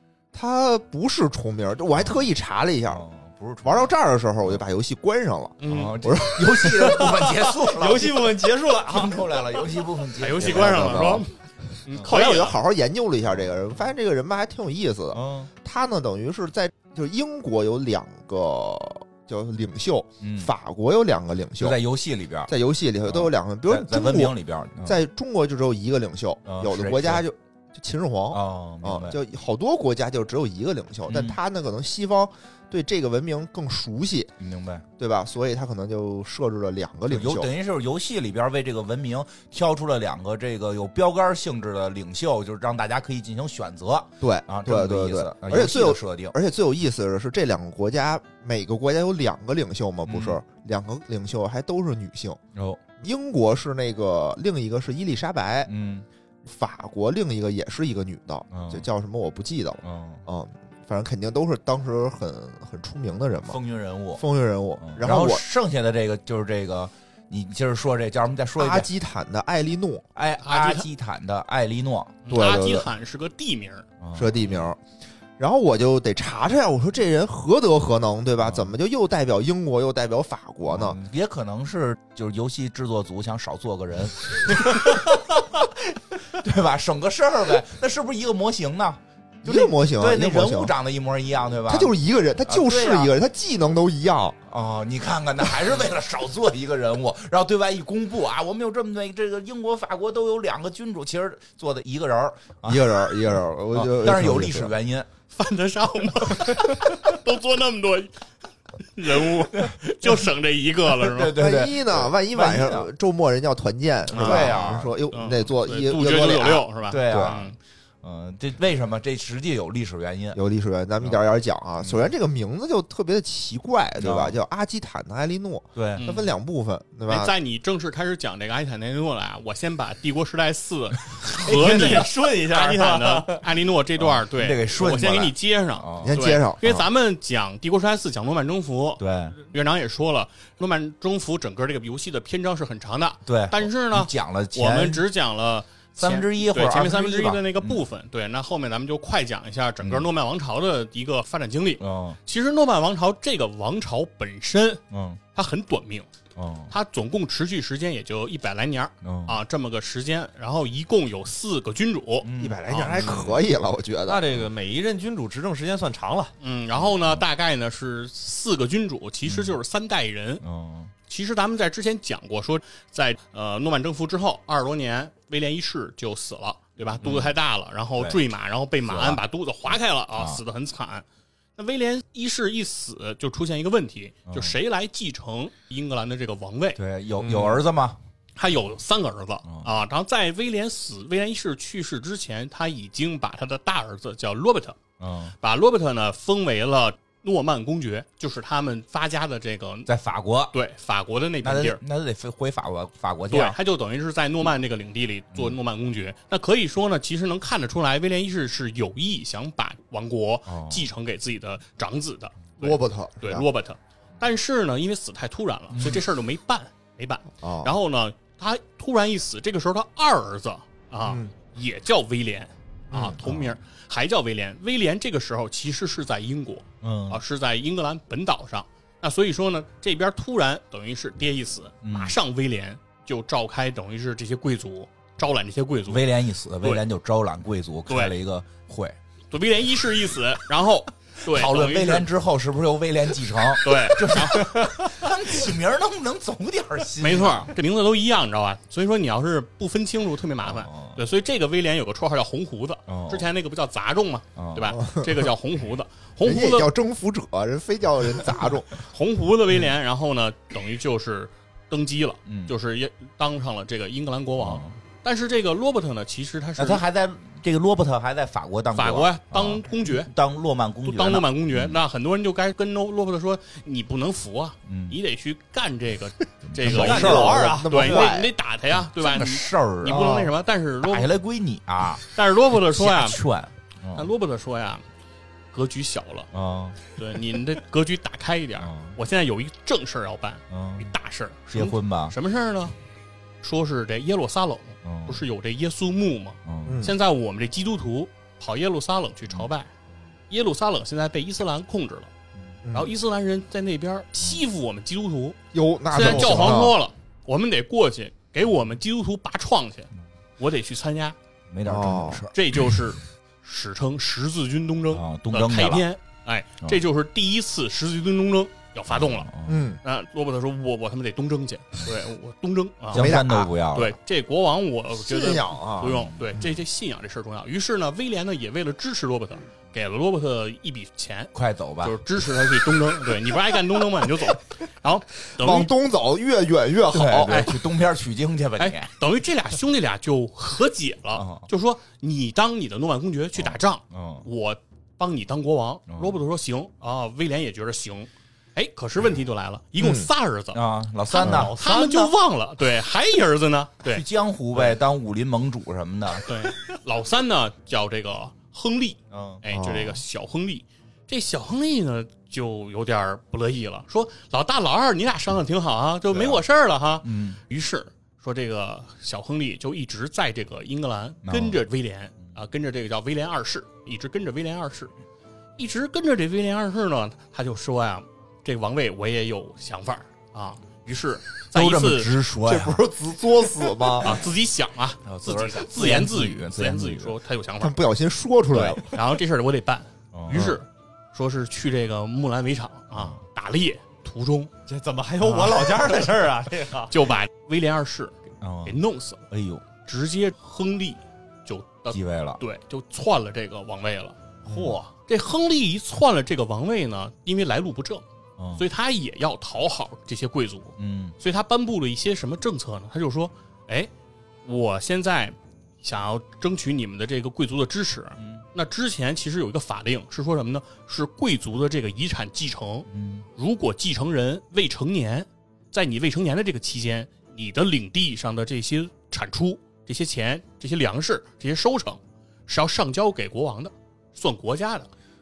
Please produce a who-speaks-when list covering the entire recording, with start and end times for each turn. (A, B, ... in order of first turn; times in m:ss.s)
0:00.3-0:03.0 A
0:02.9-0:03.9 B
0:03.6-0:07.0 A
0:05.6-0:06.0 C
0:05.6-0:11.1 B
0:06.6-0:09.6 D
0:10.2-0:12.5 C
0:10.4-0:11.2 A
0:11.9-0:12.5 D
0:12.0-0:21.8 A
0:15.1-0:15.5 B
0:20.2-0:20.5 B
0:21.6-0:22.5 B
0:22.5-0:34.3 A
0:23.0-0:25.0 B
0:26.4-0:27.2 B
0:28.3-0:29.2 B
0:31.1-0:31.4 B
0:34.4-0:34.8 B
0:35.0-0:37.5 A
0:37.1-0:46.3 B
0:44.2-0:52.4 A
0:50.1-0:50.4 B
0:52.5-0:52.8 B
0:53.0-0:55.7 A
0:55.7-0:56.0 B
0:56.4-1:03.6 A
0:58.5-0:58.8 B
0:59.8-1:00.2 B
1:03.4-1:04.2 B
1:04.1-1:05.4 A
1:04.8-1:08.9 B
1:08.6-1:10.0 A
1:10.1-1:12.2 B
1:10.4-1:10.9 C
1:12.2-1:13.8 C
1:12.3-1:12.9 A
1:14.0-1:14.6 B
1:14.1-1:14.8 A
1:15.4-1:21.0 A
1:20.6-1:31.9 B
1:29.4-1:30.7 A
1:31.7-1:34.4 A
1:32.5-1:33.1 B
1:34.5-1:43.2 B
1:42.6-1:44.7 A
1:43.7-1:45.1 B
1:45.3-1:48.2 C
1:48.8-1:51.3 C
1:49.6-1:50.1 B
1:51.0-1:52.9 B
1:51.3-1:57.4 A
1:54.1-1:57.6 C
1:54.1-1:54.9 B
1:56.9-2:00.4 B
2:00.3-2:07.3 A
2:04.0-2:04.4 B
2:05.7-2:06.0 B
2:06.0-2:06.3 C
2:07.1-2:34.8 C
2:11.4-2:13.5 D
2:11.4-2:12.1 B
2:14.0-2:16.2 B
2:16.0-2:16.8 A
2:19.0-2:19.4 B
2:23.2-2:25.0 B
2:26.0-2:27.8 B
2:29.8-2:30.1 B
2:31.8-2:32.2 B
2:34.9-2:35.2 B
2:35.3-2:36.1 C
2:36.4-2:36.7 B
2:36.7-2:42.8 C
2:39.0-2:39.4 B
2:42.2-2:43.1 B
2:42.4-2:44.3 A
2:42.8-2:43.4 D
2:44.0-2:46.3 D
2:46.4-2:50.4 C
2:46.8-2:47.2 B
2:49.2-2:49.6 B
2:50.4-2:50.9 B
2:51.1-3:01.0 C
2:57.0-2:57.3 B
2:58.0-2:58.2 B
2:58.8-2:59.2 B
3:00.1-3:00.4 B
3:01.6-3:06.8 C
3:06.8-3:08.0 B
3:07.2-3:07.6 D
3:08.4-3:14.8 C
3:15.0-3:15.3 B
3:15.4-3:19.9 C
3:19.9-3:20.5 B
3:20.5-3:21.8 C
3:21.4-3:23.6 B
3:23.3-3:56.1 C
3:30.5-3:30.9 B
3:32.6-3:33.4 A
3:35.7-3:36.0 B
3:37.4-3:37.7 A
3:41.0-3:41.3 A
3:42.9-3:43.2 A
3:43.2-3:43.6 B
3:46.8-3:47.2 B
3:51.8-3:52.1 B
3:55.9-3:59.0 B
3:57.9-3:58.1 C
3:59.3-4:02.1 C
4:01.3-4:07.5 B
4:03.6-4:04.5 C
4:07.0-4:16.7 C
4:10.4-4:11.0 B
4:12.9-4:13.3 B
4:14.4-4:14.8 B
4:16.2-4:18.8 A
4:18.9-4:26.8 C
4:22.2-4:22.5 B
4:24.4-4:24.7 B
4:26.6-4:31.8 B
4:28.7-4:30.1 C
4:30.8-4:41.1 C
4:34.7-4:35.0 B
4:36.5-4:37.3 B
4:36.6-4:38.3 A
4:36.7-4:38.1 D
4:38.9-4:40.3 B
4:39.8-4:40.3 A
4:40.8-4:42.1 B
4:42.1-4:43.2 C
4:42.6-4:44.1 B
4:43.9-4:44.8 C
4:45.5-4:46.3 C
4:46.3-4:46.8 B
4:46.8-4:52.7 C
4:48.6-4:48.9 B
4:50.5-4:50.9 B
4:51.5-4:52.1 B
4:53.4-4:59.7 C
4:54.8-4:55.2 B
4:56.4-4:56.8 B
4:56.6-4:56.9 A
5:00.3-5:02.1 C
5:02.6-5:02.9 A
5:02.7-5:05.4 C
5:05.5-5:06.7 A
5:05.9-5:11.2 C
5:11.5-5:12.3 B
5:11.6-5:12.2 A
5:12.3-5:19.3 C
5:14.9-5:15.8 B
5:18.9-5:19.7 B
5:19.4-5:19.8 A
5:19.8-5:23.1 C
5:22.9-5:24.0 B
5:22.9-5:23.5 A
5:23.7-5:35.7 C
5:25.0-5:26.0 A
5:25.8-5:26.4 B
5:31.3-5:32.0 B
5:35.4-5:37.5 A
5:36.9-5:38.9 B
5:37.3-5:37.6 C
5:38.6-5:54.0 C
5:41.1-5:41.4 B
5:43.4-5:44.2 B
5:45.9-5:46.2 B
5:49.8-5:50.1 A
5:50.5-5:51.5 B
5:51.2-5:52.1 D
5:53.8-5:56.3 B
5:56.2-6:14.9 C
5:59.1-5:59.4 B
5:59.5-6:00.0 A
6:06.1-6:06.4 B
6:07.0-6:07.4 B
6:11.2-6:11.6 B
6:15.6-6:22.1 C
6:21.5-6:22.8 B
6:22.4-6:24.2 A
6:24.0-6:27.8 C
6:25.0-6:27.2 B
6:27.6-6:29.0 A
6:28.5-6:34.5 C
6:30.1-6:30.6 B
6:32.9-6:33.2 B
6:34.6-6:36.9 D
6:35.2-6:35.5 C
6:36.9-6:39.2 C
6:38.4-6:38.8 B
6:39.3-6:39.6 B
6:39.8-6:44.2 C
6:41.9-6:42.4 B
6:44.5-6:44.9 D
6:45.1-6:48.0 C
6:48.4-6:48.6 B
6:48.6-6:53.9 C
6:50.8-6:51.2 B
6:54.4-7:14.9 C
6:58.2-6:58.4 B
7:02.9-7:03.2 B